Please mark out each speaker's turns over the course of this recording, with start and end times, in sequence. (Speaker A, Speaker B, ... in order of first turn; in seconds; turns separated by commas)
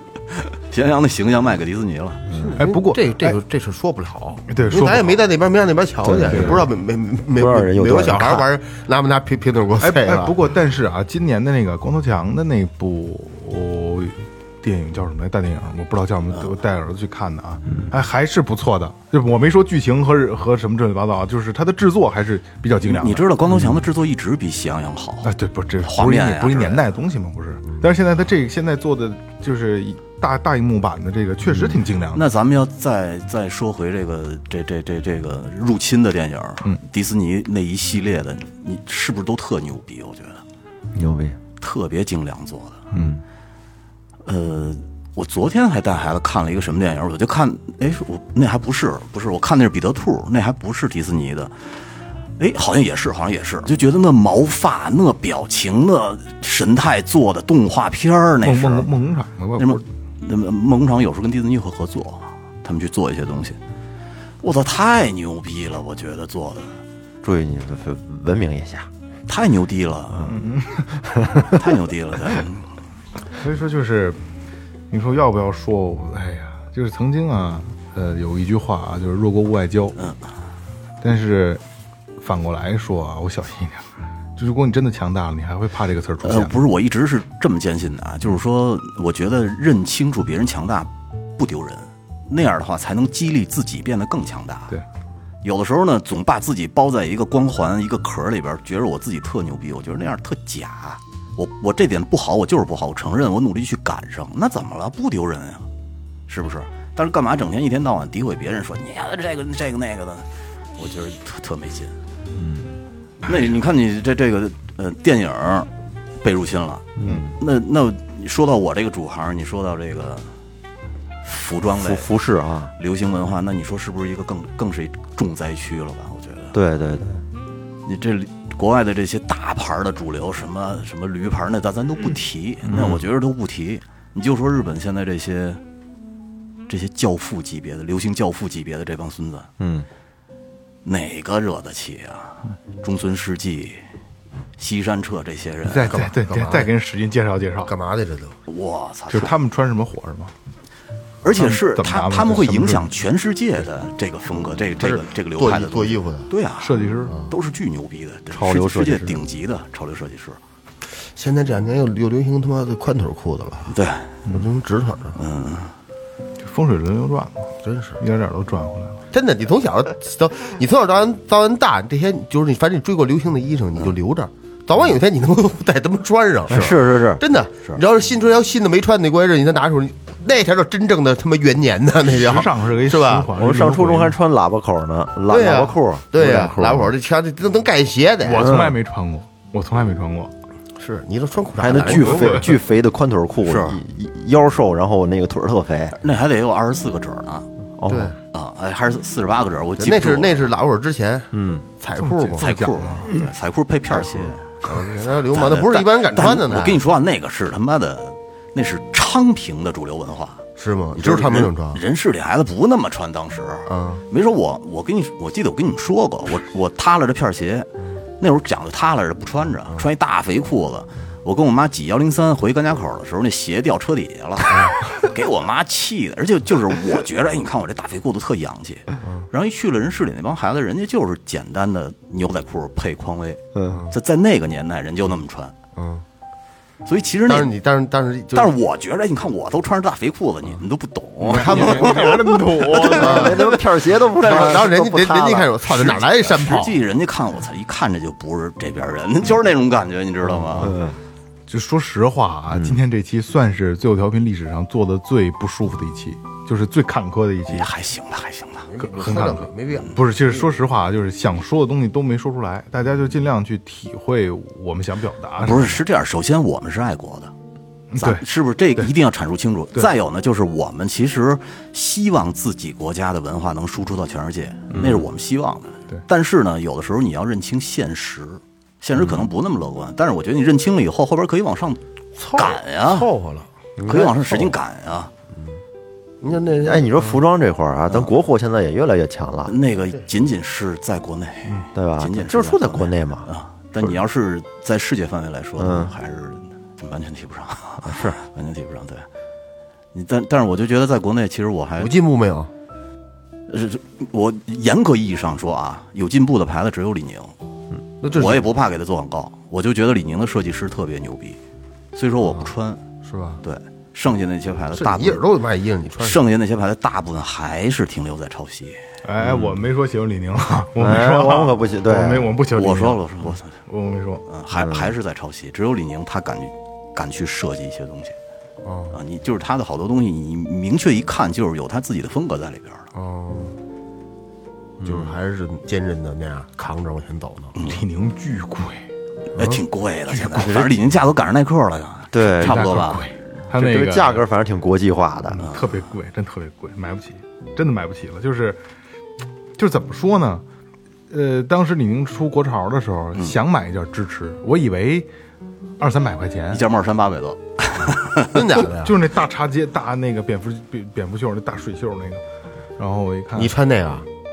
Speaker A: 0.3-2.2, Speaker B: 2.3-2.6, Speaker C: 2.3-10.3, Speaker D: 2.6-3.4, Speaker D: 4.5-5.2, Speaker B: 6.0-6.7, Speaker D: 6.3-6.7, Speaker B: 7.4-8.5, Speaker D: 9.8-23.8, Speaker A: 22.8-25.3, Speaker D: 25.2-32.3, Speaker A: 25.8-26.8, Speaker A: 32.1-40.4, Speaker B: 41.0-41.4, Speaker A: 41.6-42.8, Speaker D: 42.9-43.2, Speaker B: 42.9-43.2, Speaker A: 44.2-51.8, Speaker A: 52.4-58.9, Speaker D: 58.4-59.8, Speaker A: 59.6-63.6, Speaker A: 64.4-66.8, Speaker B: 67.2-68.9, Speaker A: 69.3-70.4, Speaker D: 70.2-71.0, Speaker B: 71.0-71.6, Speaker A: 71.4-72.7, Speaker D: 73.4-74.2, Speaker D: 74.9-80.0, Speaker D: 81.0-81.6, Speaker D: 82.2-86.5, Speaker A: 86.2-94.8, Speaker A: 95.4-105.7, Speaker A: 106.3-110.2, Speaker A: 110.8-111.9, Speaker B: 112.3-112.8, Speaker A: 113.2-115.7, Speaker A: 116.2-120.3, Speaker B: 117.0-117.3, Speaker A: 121.2-122.1, Speaker B: 121.8-122.7, Speaker A: 122.8-126.5, Speaker B: 126.5-127.2, Speaker A: 127.8-135.6, Speaker B: 132.7-133.0, Speaker A: 136.7-139.5, Speaker B: 139.6-139.9, Speaker A: 140.8-143.8, Speaker A: 144.6-146.1, Speaker D: 145.6-147.7, Speaker C: 145.9-146.7, Speaker C: 147.6-148.3, Speaker A: 148.5-149.3, Speaker D: 149.1-150.3, Speaker A: 151.2-160.4, Speaker D: 151.3-153.0, Speaker C: 154.8-156.3, Speaker D: 156.6-157.1, Speaker C: 157.0-157.3, Speaker B: 158.3-159.2, Speaker C: 160.9-163.7, Speaker A: 163.7-164.1, Speaker C: 164.3-165.2, Speaker A: 165.2-165.7, Speaker D: 166.4-169.0, Speaker C: 167.6-168.0, Speaker C: 169.1-183.3, Speaker B: 176.5-177.2, Speaker D: 182.0-184.2, Speaker B: 183.3-186.9, Speaker C: 185.3-188.5, Speaker D: 188.2-190.3, Speaker B: 188.4-188.7, Speaker C: 190.8-192.5, Speaker B: 191.6-196.0, Speaker D: 191.9-192.5, Speaker A: 193.4-193.8, Speaker A: 195.9-197.5, Speaker B: 197.8-198.1, Speaker C: 197.9-198.2, Speaker A: 198.3-200.5, Speaker C: 199.8-202.5, Speaker B: 201.3-201.7, Speaker D: 202.0-203.2, Speaker A: 202.4-204.7, Speaker C: 203.9-206.8, Speaker A: 205.3-210.4, Speaker C: 210.6-211.8, Speaker A: 210.9-235.5, Speaker C: 213.7-214.0, Speaker B: 233.5-233.8, Speaker C: 233.7-233.9, Speaker C: 235.8-236.0, Speaker A: 236.8-237.5, Speaker C: 237.2-238.5, Speaker A: 238.3-243.6, Speaker C: 241.2-242.2, Speaker D: 241.3-243.6, Speaker B: 242.8-245.5, Speaker C: 242.8-243.4, Speaker A: 244.1-244.7, Speaker C: 244.2-246.8, Speaker A: 245.6-250.8, Speaker B: 250.6-251.0, Speaker D: 251.5-257.7, Speaker B: 252.5-252.8, Speaker A: 257.5-258.7, Speaker C: 258.6-260.4, Speaker D: 258.8-265.8, Speaker A: 265.4-267.3, Speaker D: 267.9-268.9, Speaker A: 268.0-281.8, Speaker B: 274.7-275.1, Speaker C: 282.2-283.5, Speaker A: 282.3-283.1, Speaker B: 283.8-284.6, Speaker A: 283.8-285.1, Speaker C: 286.2-287.2, Speaker B: 286.6-289.5, Speaker A: 289.5-299.1, Speaker B: 291.7-293.3, Speaker B: 295.6-295.9, Speaker B: 297.8-298.2, Speaker A: 299.9-301.9, Speaker C: 301.8-302.5, Speaker A: 303.5-307.3, Speaker C: 308.0-308.5, Speaker A: 308.1-311.4, Speaker A: 311.9-312.8, Speaker C: 313.0-313.4, Speaker A: 313.4-315.2, Speaker C: 314.7-316.2, Speaker A: 316.0-319.5, Speaker D: 319.0-324.2, Speaker B: 320.8-322.3, Speaker A: 322.5-323.5, Speaker A: 324.3-328.1, Speaker B: 324.5-324.9, Speaker C: 328.6-329.0, Speaker A: 328.9-332.9, Speaker C: 332.9-333.6, Speaker B: 334.8-335.1, Speaker C: 334.8-337.5, Speaker A: 337.6-337.8, Speaker D: 337.6-338.8, Speaker A: 339.4-343.1, Speaker C: 339.4-339.6, Speaker D: 340.1-340.6, Speaker B: 340.3-340.8, Speaker B: 342.1-342.9, Speaker D: 342.4-344.2, Speaker B: 343.5-345.5, Speaker D: 345.3-348.6, Speaker D: 349.6-350.4, Speaker D: 351.1-355.1, Speaker D: 355.8-356.7, Speaker A: 356.5-358.6, Speaker C: 358.3-358.9, Speaker D: 358.8-362.2, Speaker D: 362.8-363.5, Speaker C: 363.4-364.1